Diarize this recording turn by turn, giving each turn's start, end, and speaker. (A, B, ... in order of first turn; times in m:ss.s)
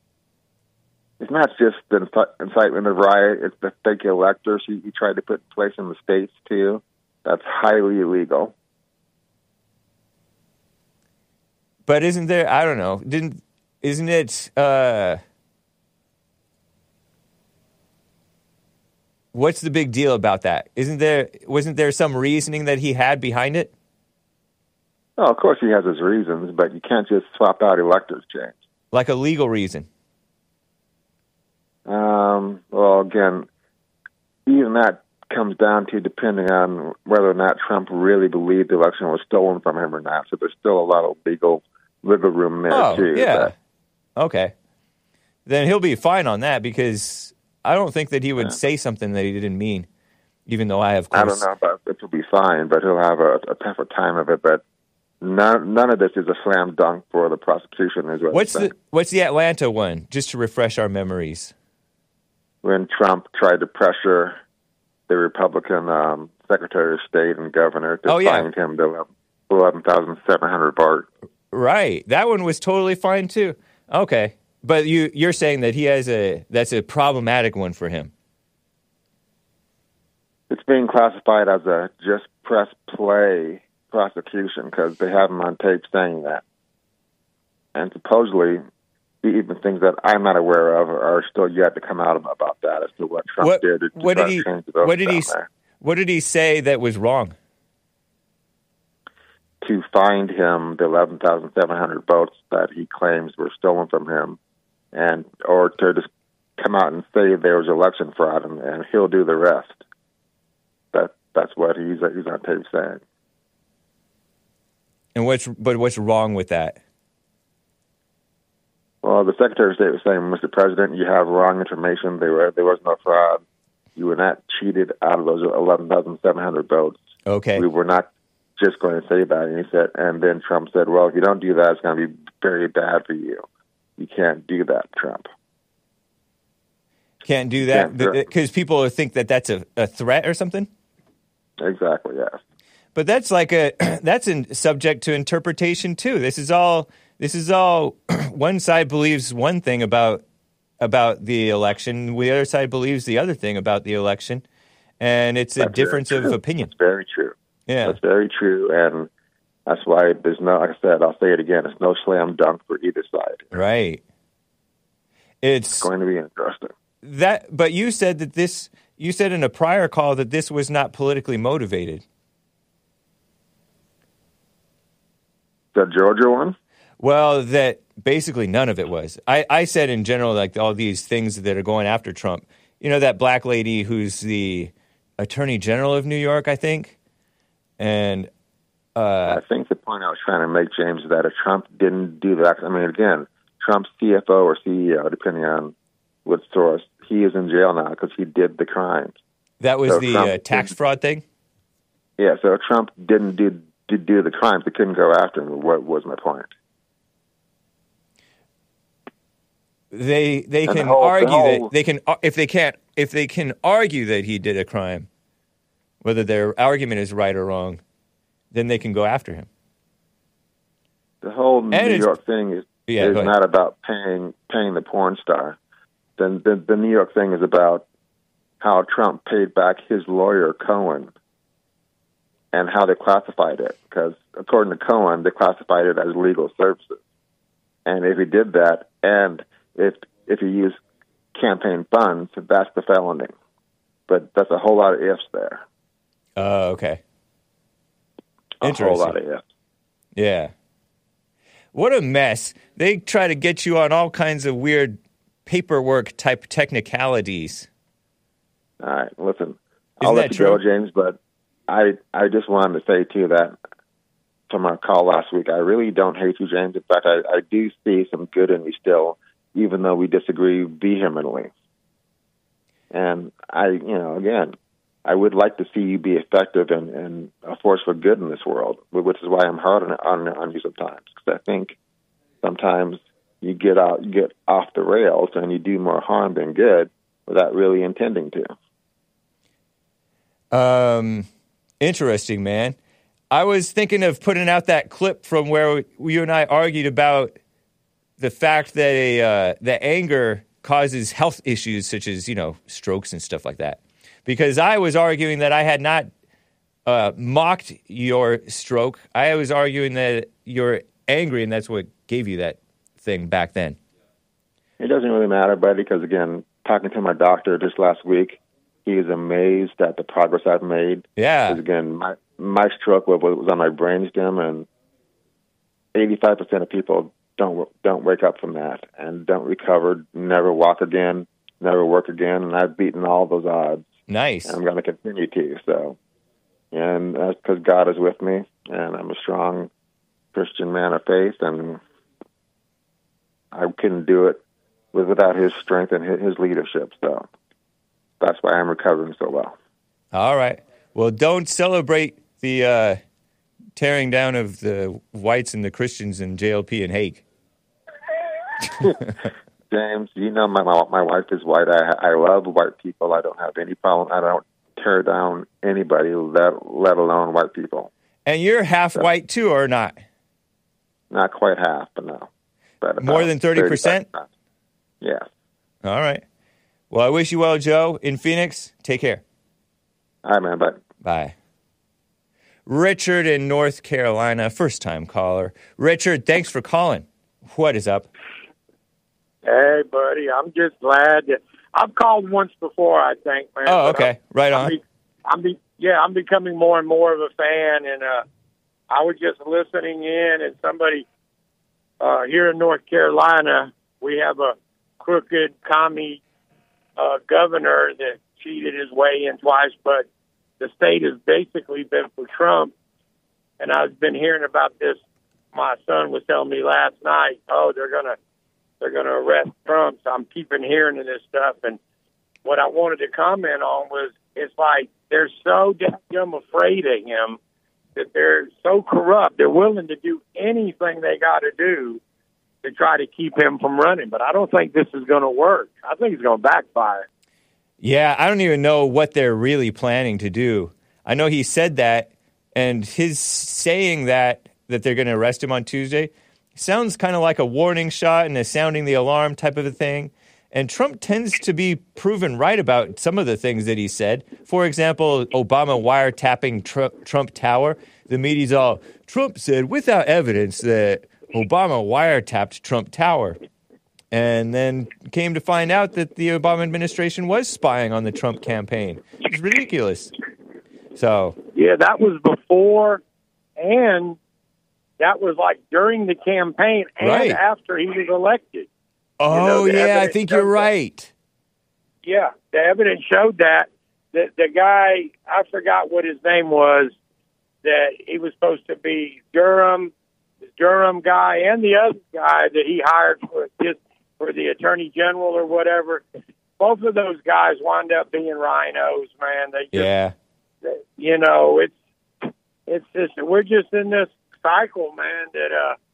0:01.2-0:08.5 A
0:11.9-0:15.2 B
0:19.3-0:23.7 B
0:25.2-0:28.6 A
0:28.9-0:29.9 B
0:31.9-0:33.5 A
0:34.5-0:43.5 A
0:42.7-0:43.5 B
0:44.2-0:44.5 B
0:45.5-0:49.9 B
0:50.5-0:51.5 B
0:51.1-0:54.6 A
0:55.2-0:58.7 A
0:58.3-1:01.5 B
1:02.6-1:04.4 A
1:05.1-1:11.1 A
1:08.1-1:08.5 B
1:11.5-1:18.1 B
1:20.5-1:26.4 A
1:27.8-1:28.6 A
1:29.2-1:35.5 A
1:33.4-1:37.4 B
1:39.6-1:44.4 A
1:44.9-1:46.1 A
1:46.6-1:49.8 A
1:50.9-1:53.0 A
1:55.1-1:56.8 B
1:59.0-2:03.4 A
2:04.0-2:07.0 A
2:07.3-2:07.6 B
2:07.6-2:13.4 A
2:14.0-2:15.3 A
2:17.2-2:20.7 B
2:17.7-2:18.2 A
2:21.6-2:22.4 A
2:22.9-2:30.2 B
2:30.8-2:34.4 B
2:35.0-2:36.7 B
2:35.6-2:39.1 A
2:37.7-2:38.0 B
2:39.7-2:43.6 A
2:43.5-2:44.0 B
2:45.4-2:45.9 B
2:45.8-2:46.7 A
2:47.0-2:52.0 B
2:55.8-2:56.6 A
2:57.0-3:06.9 B
3:07.8-3:08.3 B
3:09.0-3:09.4 B
3:09.3-3:19.2 A
3:19.6-3:21.2 B
3:19.9-3:20.7 A
3:22.2-3:26.5 A
3:29.9-3:35.1 B
3:30.7-3:31.7 A
3:36.0-3:37.8 B
3:38.5-3:39.5 B
3:41.2-3:45.6 A
3:41.7-3:42.1 B
3:42.9-3:43.3 B
3:46.2-3:47.8 A
3:48.6-3:51.1 A
3:52.5-3:57.0 A
3:57.9-4:00.8 A
4:01.4-4:03.3 A
4:04.1-4:05.6 A
4:06.4-4:07.0 B
4:08.6-4:09.4 A
4:08.6-4:09.2 B
4:10.2-4:10.5 B
4:11.7-4:17.7 B
4:18.8-4:23.6 A
4:20.0-4:20.6 B
4:24.5-4:31.5 A
4:32.9-4:41.8 A
4:42.4-4:48.5 A
4:50.5-4:51.3 B
4:51.8-4:52.8 B
4:53.3-4:57.3 B
4:58.2-5:06.1 B
5:06.9-5:13.8 B
5:14.8-5:24.6 A
5:21.2-5:21.6 B
5:25.9-5:33.9 A
5:34.1-5:34.6 B
5:34.5-5:36.0 A
5:36.7-5:39.7 A
5:40.3-5:41.8 A
5:43.5-5:44.4 A
5:44.9-5:47.3 A
5:48.2-5:49.6 A
5:50.1-5:53.0 B
5:53.8-5:57.2 B
5:58.8-5:59.1 B
5:59.7-6:07.9 A
6:08.3-6:10.0 B
6:11.1-6:12.3 A
6:12.8-6:14.3 A
6:13.0-6:14.1 B
6:15.8-6:16.2 B
6:16.9-6:19.2 B
6:20.2-6:20.8 A
6:21.0-6:21.3 B
6:22.7-6:28.1 B
6:29.4-6:38.2 C
6:33.6-6:34.8 B
6:38.9-6:41.0 C
6:42.0-6:46.2 C
6:47.0-6:50.1 C
6:50.6-6:52.7 C
6:53.6-6:55.0 C
6:55.5-6:58.2 C
6:58.8-7:01.8 C
7:02.4-7:07.4 C
7:08.0-7:12.0 C
7:12.6-7:17.0 C
7:17.8-7:43.4 B
7:44.1-7:50.1 B
7:51.0-7:51.4 B
7:51.5-7:53.0 C
7:53.6-7:54.2 C
7:55.0-7:58.7 C
7:57.0-7:57.4 B
7:59.2-8:01.1 B
7:59.3-8:00.7 C
8:02.0-8:06.9 C
8:07.6-8:09.9 C
8:10.6-8:16.0 C
8:16.6-8:19.9 C
8:19.7-8:20.1 B
8:20.6-8:21.7 C
8:22.7-8:25.8 C